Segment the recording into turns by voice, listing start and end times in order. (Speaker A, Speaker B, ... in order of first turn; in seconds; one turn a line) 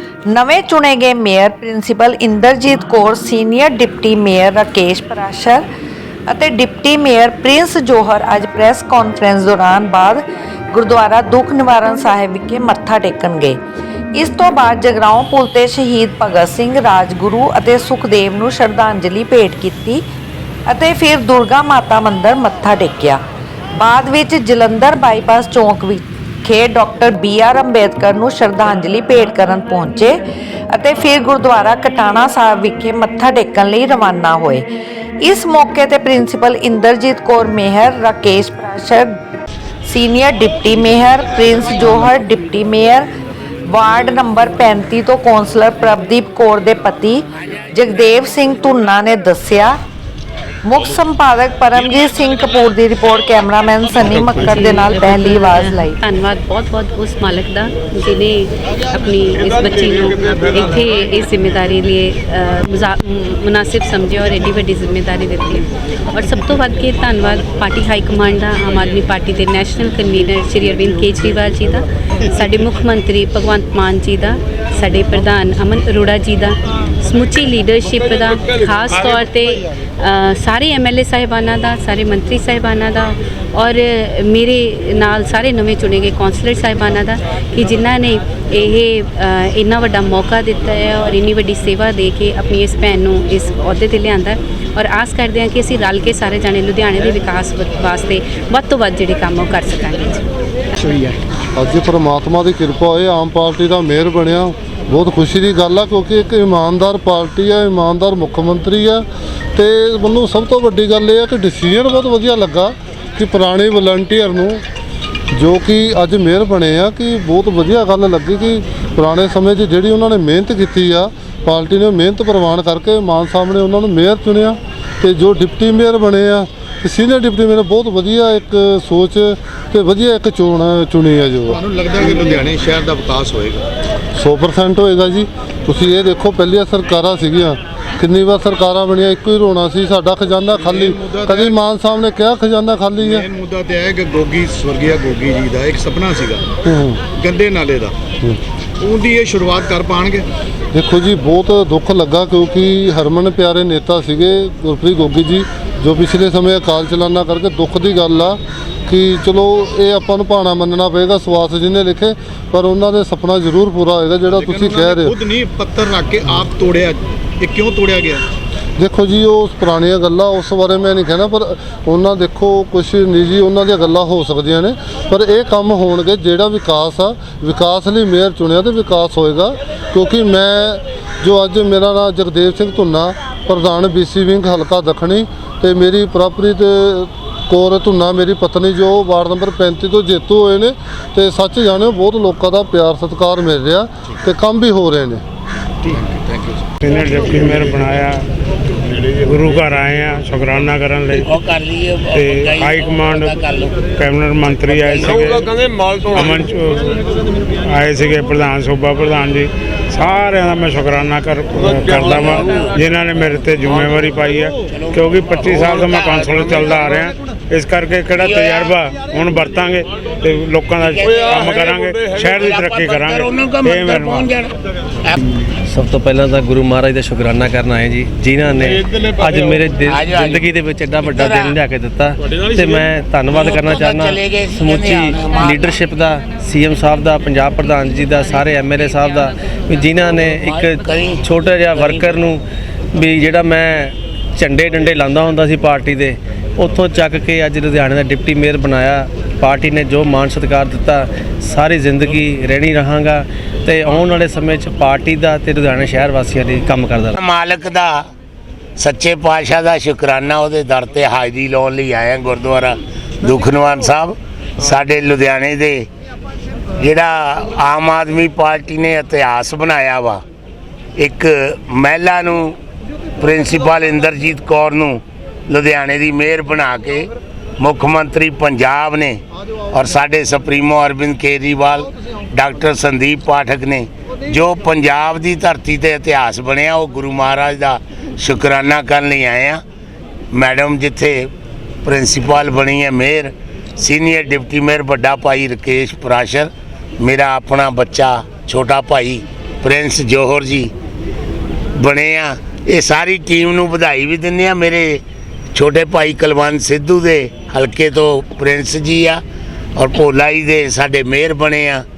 Speaker A: 0.3-5.6
Speaker A: 6.3-13.6
Speaker A: 14.2-20.0
Speaker A: 20.7-23.2
Speaker A: 23.8-34.7
Speaker A: 35.2-39.2
Speaker A: 39.8-43.1
Speaker A: 43.7-49.8
Speaker A: 50.6-56.0
Speaker B: 54.2-100.2
Speaker C: 101.5-114.6
Speaker C: 115.3-132.1
Speaker D: 131.5-133.7
Speaker C: 134.1-143.2
Speaker D: 140.6-141.6
Speaker D: 143.0-146.4
Speaker C: 146.6-147.0
Speaker D: 147.1-147.9
Speaker D: 148.8-150.2
Speaker C: 150.7-165.1
Speaker D: 164.3-168.2
Speaker C: 168.8-195.2
Speaker D: 195.9-196.7
Speaker E: 196.8-198.2
Speaker E: 199.1-201.2
Speaker F: 201.1-203.9
Speaker E: 202.1-203.4
Speaker E: 203.9-205.5
Speaker F: 204.7-205.5
Speaker E: 206.1-206.9
Speaker E: 207.6-224.3
Speaker F: 211.7-212.8
Speaker F: 214.7-216.9
Speaker F: 218.2-218.8
Speaker F: 220.9-221.5
Speaker F: 222.1-225.3
Speaker G: 225.7-242.4
Speaker F: 229.9-231.6
Speaker F: 233.3-235.7
Speaker F: 240.0-242.2
Speaker G: 242.9-257.1
Speaker F: 257.1-258.1
Speaker F: 258.8-265.9
Speaker F: 266.8-270.2
Speaker F: 271.0-272.6
Speaker F: 273.2-289.6
Speaker F: 290.3-291.3
Speaker F: 291.8-300.7
Speaker F: 301.8-305.0
Speaker F: 305.5-309.2
Speaker F: 309.8-311.8